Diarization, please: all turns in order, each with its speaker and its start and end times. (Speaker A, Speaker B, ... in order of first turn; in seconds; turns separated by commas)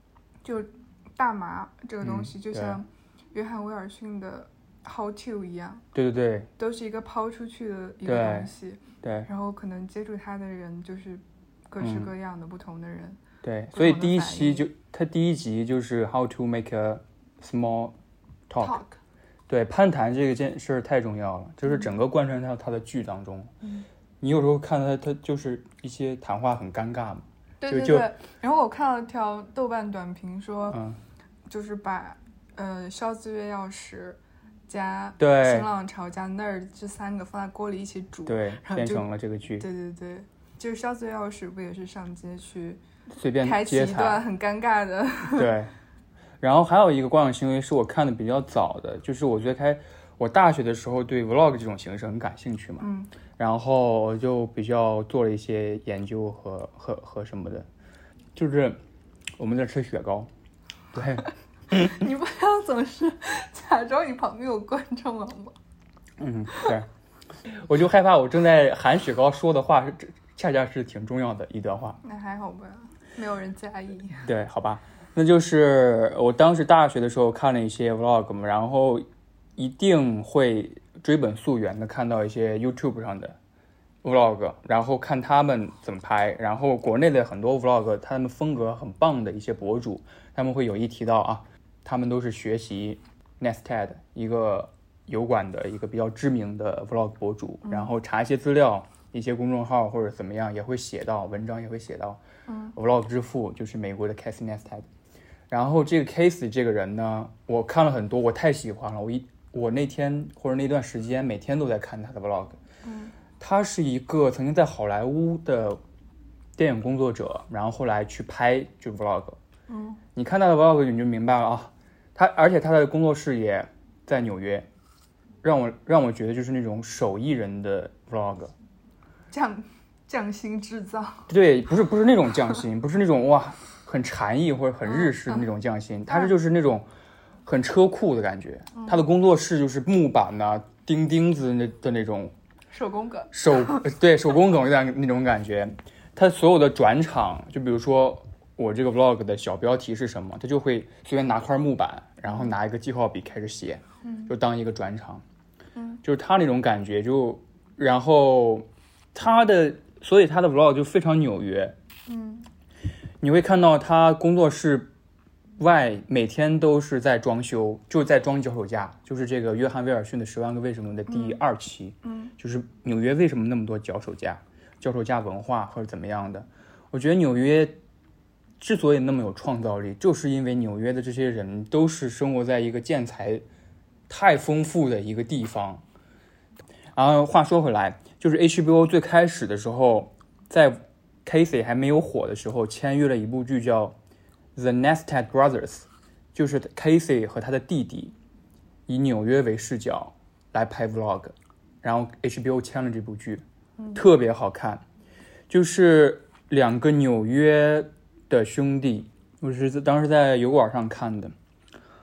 Speaker A: 0.4-5.8, Speaker B: 2.0-2.8, Speaker B: 5.9-6.5, Speaker A: 6.6-13.2, Speaker B: 8.1-8.5, Speaker B: 9.0-9.3, Speaker B: 11.8-12.1, Speaker B: 13.4-18.0, Speaker A: 13.7-14.7, Speaker B: 18.5-18.8, Speaker A: 18.6-19.0, Speaker B: 19.5-23.5, Speaker A: 21.6-21.9, Speaker A: 23.6-23.9, Speaker B: 24.2-28.1, Speaker A: 27.6-30.8, Speaker B: 30.7-31.0, Speaker A: 31.5-39.1, Speaker B: 35.2-35.7, Speaker B: 38.3-39.7, Speaker A: 39.6-42.8, Speaker B: 43.1-44.2, Speaker A: 43.4-45.5, Speaker B: 45.3-45.7, Speaker B: 46.4-57.7, Speaker A: 52.8-53.1, Speaker B: 58.4-58.8, Speaker B: 59.4-60.3, Speaker B: 60.9-61.9, Speaker A: 61.7-65.5, Speaker B: 66.2-66.9, Speaker B: 67.5-72.0, Speaker A: 72.0-74.2, Speaker B: 74.2-83.4, Speaker B: 84.0-102.2, Speaker A: 97.7-97.9, Speaker A: 102.5-102.8, Speaker B: 102.8-104.9, Speaker B: 105.5-112.6, Speaker A: 112.8-113.2, Speaker B: 113.4-115.8, Speaker B: 116.6-119.4, Speaker A: 119.7-120.0, Speaker B: 120.1-124.7, Speaker B: 125.4-128.5, Speaker A: 129.3-131.3, Speaker B: 131.3-136.9, Speaker A: 134.8-135.5, Speaker A: 136.1-136.3, Speaker B: 137.5-142.3, Speaker A: 138.7-139.1, Speaker A: 142.7-143.9, Speaker B: 143.3-155.2, Speaker A: 152.3-152.5, Speaker A: 154.0-154.3, Speaker A: 155.8-156.0, Speaker B: 156.0-161.8, Speaker A: 162.1-162.5, Speaker B: 163.2-164.9, Speaker B: 165.6-177.8, Speaker A: 171.1-171.4, Speaker A: 172.0-172.3, Speaker B: 178.6-183.4, Speaker B: 184.1-185.8, Speaker B: 186.9-194.0, Speaker B: 194.6-198.1, Speaker B: 198.9-204.8, Speaker B: 205.5-211.3